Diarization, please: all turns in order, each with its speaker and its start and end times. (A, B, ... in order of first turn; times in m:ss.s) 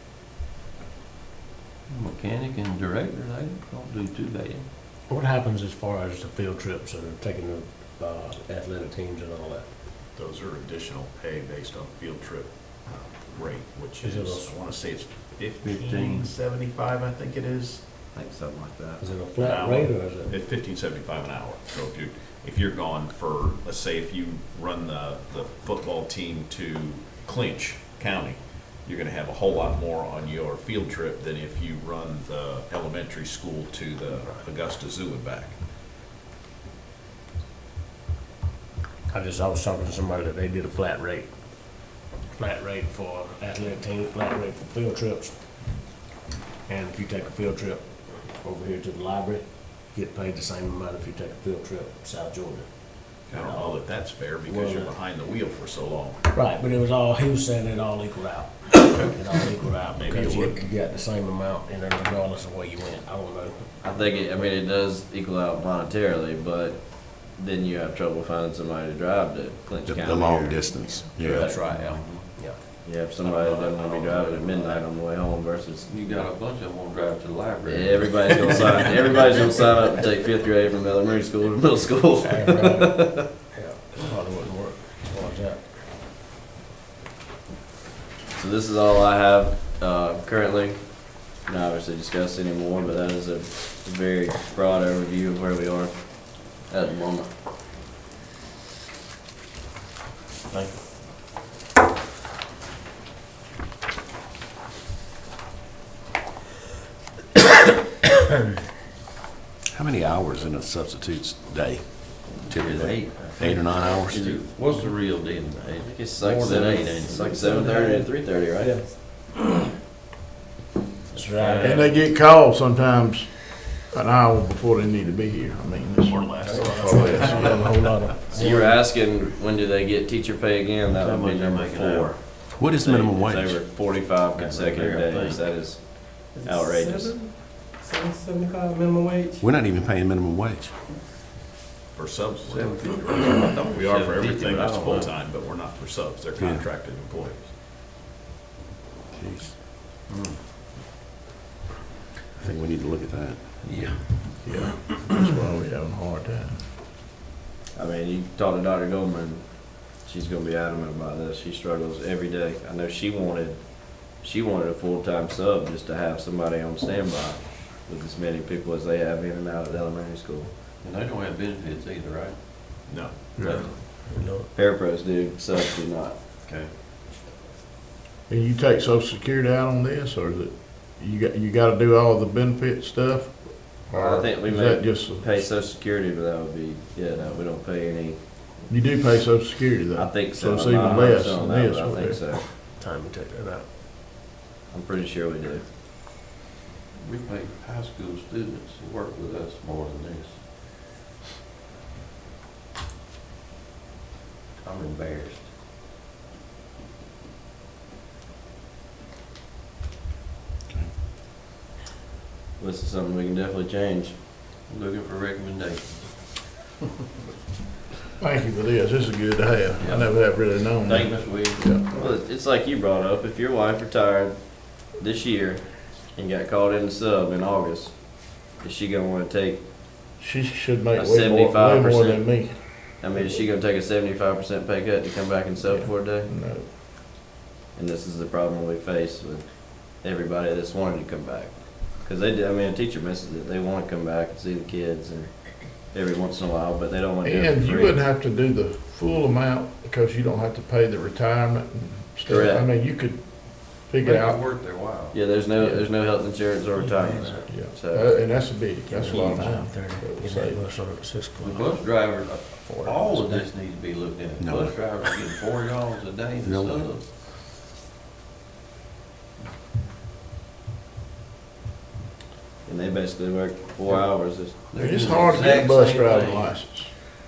0:01.9-0:04.7 A
0:05.1-0:09.7 B
0:10.1-0:15.7 C
0:14.0-0:14.4 D
0:14.1-0:14.4 B
0:15.6-0:16.3 A
0:18.1-0:19.1 E
0:19.0-0:20.3 B
0:19.4-0:35.6 C
0:39.1-0:41.3 B
0:42.4-0:45.3 B
0:46.7-0:53.8 B
0:53.3-0:56.2 C
0:54.5-0:54.9 B
0:56.3-1:03.6 B
1:00.0-1:00.4 C
1:00.1-1:00.5 F
1:03.8-1:10.7 E
1:09.9-1:11.4 D
1:11.3-1:12.3 A
1:11.4-1:12.6 B
1:12.8-1:15.9 E
1:15.9-1:19.6 A
1:17.7-1:23.3 E
1:22.3-1:25.6 B
1:22.5-1:22.8 G
1:28.3-1:37.3 E
1:49.7-1:51.8 D
1:50.0-1:51.5 C
1:52.5-1:57.7 A
1:52.5-1:54.2 D
1:52.7-1:54.1 C
1:55.7-1:58.8 E
2:01.1-2:01.8 B
2:01.3-2:01.9 A
2:01.6-2:07.6 F
2:06.1-2:07.6 C
2:06.5-2:07.1 D
2:06.5-2:07.5 G
2:06.6-2:08.7 B
2:08.3-2:17.2 E
2:10.9-2:12.2 A
2:12.8-2:13.6 D
2:14.3-2:15.4 A
2:16.4-2:19.5 G
2:19.4-2:20.7 D
2:22.0-2:22.8 C
2:22.4-2:25.2 A
2:23.4-2:27.5 C
2:26.4-2:26.6 D
2:29.2-2:29.5 D
2:30.1-2:30.4 A
2:32.4-2:33.4 D
2:33.6-2:34.0 A
2:34.4-2:36.7 F
2:37.8-2:50.5 E
2:50.8-2:52.4 A
2:52.9-2:53.1 C
2:53.4-2:54.5 B
2:53.5-2:56.2 E
2:56.4-2:56.7 A
2:58.3-3:05.5 F
3:03.9-3:08.7 E
3:08.7-3:12.2 F
3:09.9-3:12.4 E
3:12.7-3:13.7 B
3:14.7-3:15.6 E
3:17.0-3:20.4 A
3:24.6-3:25.5 A
3:32.6-3:34.2 E
3:34.7-3:36.4 A
3:38.2-3:41.9 F
3:39.8-3:40.1 A
3:40.6-3:41.2 A
3:40.9-3:49.6 E
3:50.2-3:53.4 F
3:51.0-3:56.3 E
3:55.6-3:56.7 F
3:57.8-4:08.0 E
4:07.2-4:14.4 F
4:12.3-4:12.7 E
4:14.0-4:15.2 A
4:15.1-4:19.4 E
4:15.6-4:15.9 F
4:16.9-4:17.4 A
4:17.5-4:20.6 F
4:19.0-4:21.7 B
4:21.4-4:27.1 A
4:22.7-4:23.5 F
4:24.4-4:24.8 D
4:26.4-4:26.9 D
4:32.6-4:36.3 E
4:33.9-4:36.5 A
4:34.7-4:37.1 F